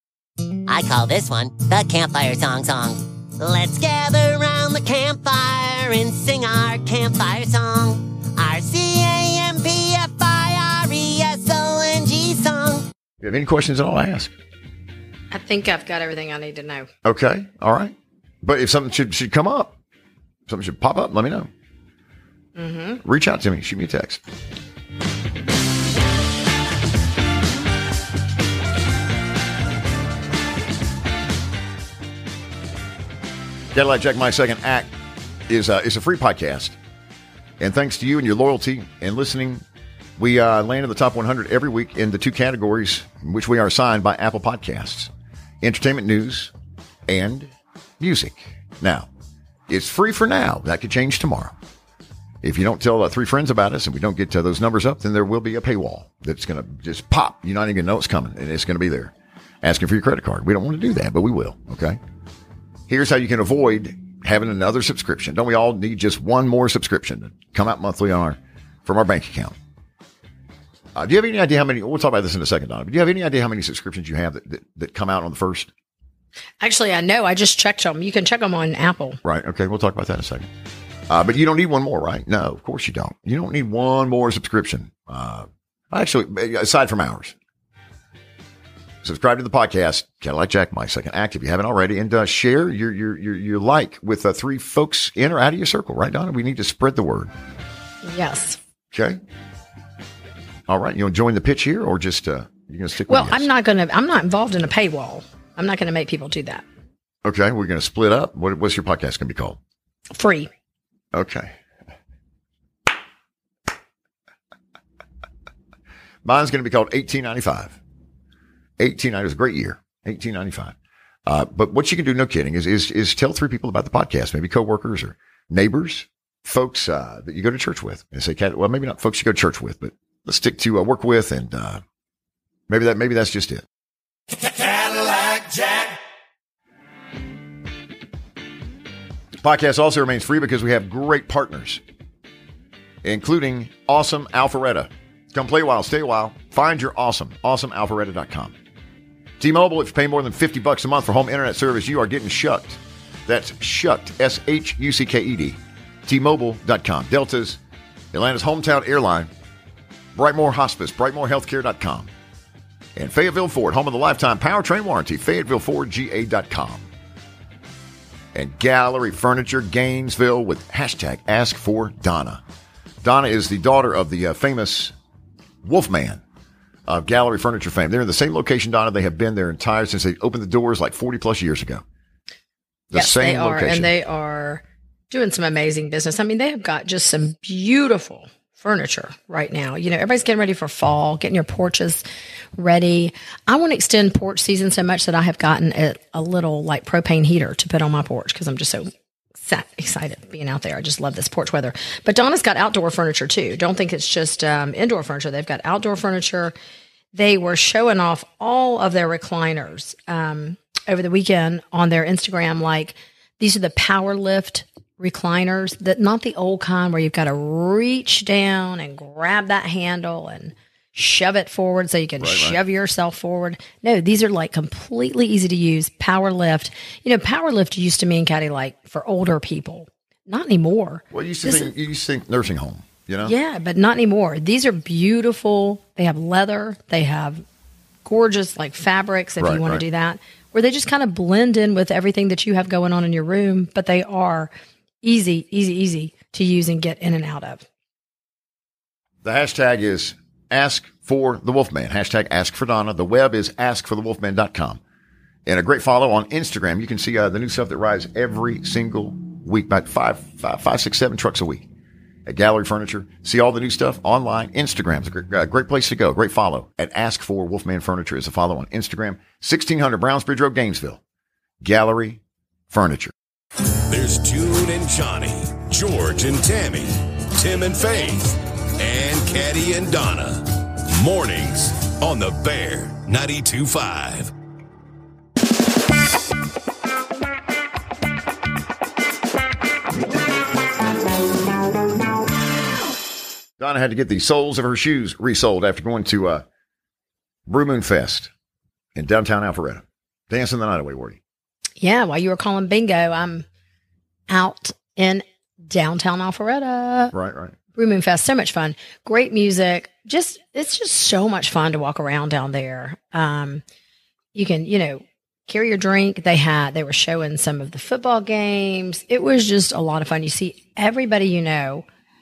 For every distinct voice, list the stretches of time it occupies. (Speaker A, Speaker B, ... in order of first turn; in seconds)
Speaker A: 0.7-12.9
Speaker B: 13.2-14.3, 17.0-19.8, 20.5-21.5, 23.0-24.2, 33.7-34.9, 35.5-36.8, 37.6-39.6, 40.2-45.1, 45.6-46.5, 47.1-49.1, 49.7-51.5, 52.4-62.0, 62.9-69.5, 70.9-75.7, 79.2-80.5, 81.1-87.3, 89.0-97.3, 98.9-99.2, 100.7-103.5, 107.2-109.6, 111.1-111.5, 116.2-117.8, 118.8-120.7, 121.3-131.8, 132.7-133.7, 139.4-141.8, 143.0-148.5, 149.4-157.6, 158.1-159.3, 160.1-162.1, 162.9-166.9, 168.3-172.4, 173.0-174.9, 175.6-176.2, 176.9-181.8, 182.9-183.9, 222.2-222.6, 231.1-233.3, 239.4-239.8, 249.2-254.8, 255.4-261.7, 262.2-271.0, 271.6-273.1, 293.6-296.4, 297.5-298.3, 298.9-301.2, 307.1-307.5
Speaker C: 15.3-16.9, 22.6-23.0, 76.6-79.2, 98.0-98.6, 103.1-106.6, 110.1-110.5, 182.9-206.5, 207.1-231.7, 233.2-237.4, 238.0-247.7, 301.8-303.4, 304.3-307.1, 307.7-313.6, 314.3-321.9
Speaker D: 273.9-284.3